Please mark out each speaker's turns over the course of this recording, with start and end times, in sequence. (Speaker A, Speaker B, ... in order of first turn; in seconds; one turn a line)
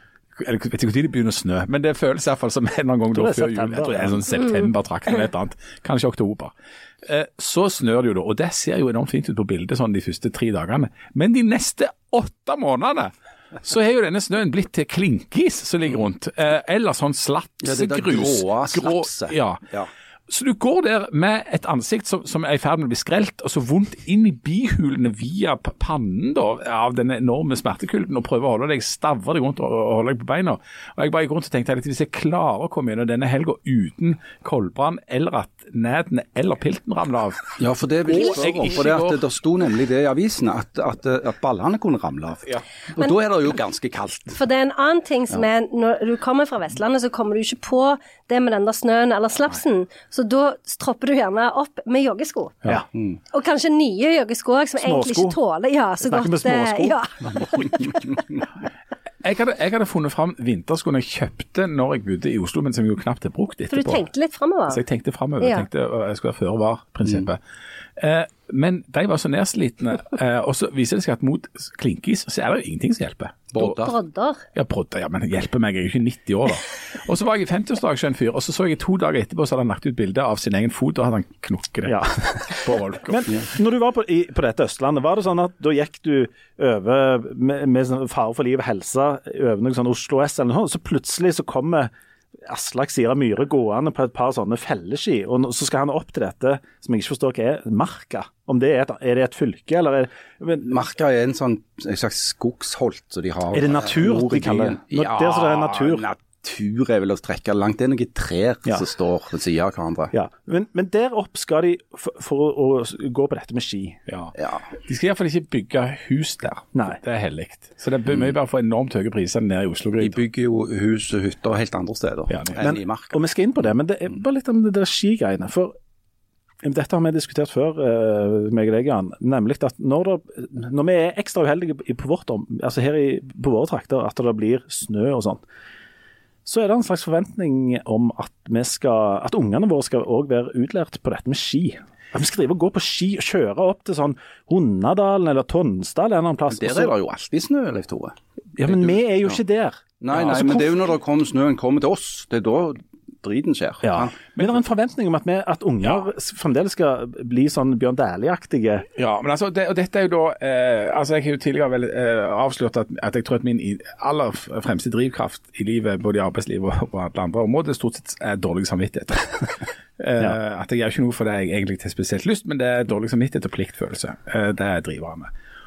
Speaker A: 0.3-19.6
Speaker B: 3.1-4.3
Speaker C: 17.6-19.9
Speaker A: 20.3-37.5
Speaker C: 37.6-44.4
Speaker A: 38.1-39.2
Speaker D: 44.3-52.6
Speaker D: 53.3-57.9
Speaker B: 54.8-55.4
Speaker B: 56.0-57.6
Speaker A: 59.2-64.0
Speaker D: 63.7-64.8
Speaker A: 64.7-67.4
Speaker D: 65.4-65.7
Speaker A: 68.0-73.5
Speaker C: 73.5-74.0
Speaker D: 73.6-74.4
Speaker A: 74.5-83.4
Speaker B: 81.8-91.9
Speaker B: 92.4-100.8
Speaker C: 100.6-110.1
Speaker B: 103.5-106.0
Speaker B: 110.1-114.0
Speaker A: 114.1-120.2
Speaker C: 114.3-114.7
Speaker B: 116.7-117.0
Speaker C: 120.0-123.2
Speaker A: 122.3-122.6
Speaker B: 122.6-125.7
Speaker B: 126.6-135.4
Speaker B: 136.4-146.9
Speaker C: 146.5-148.2
Speaker B: 148.6-150.8
Speaker C: 148.7-149.4
Speaker C: 150.0-154.1
Speaker B: 153.8-158.9
Speaker A: 158.9-175.3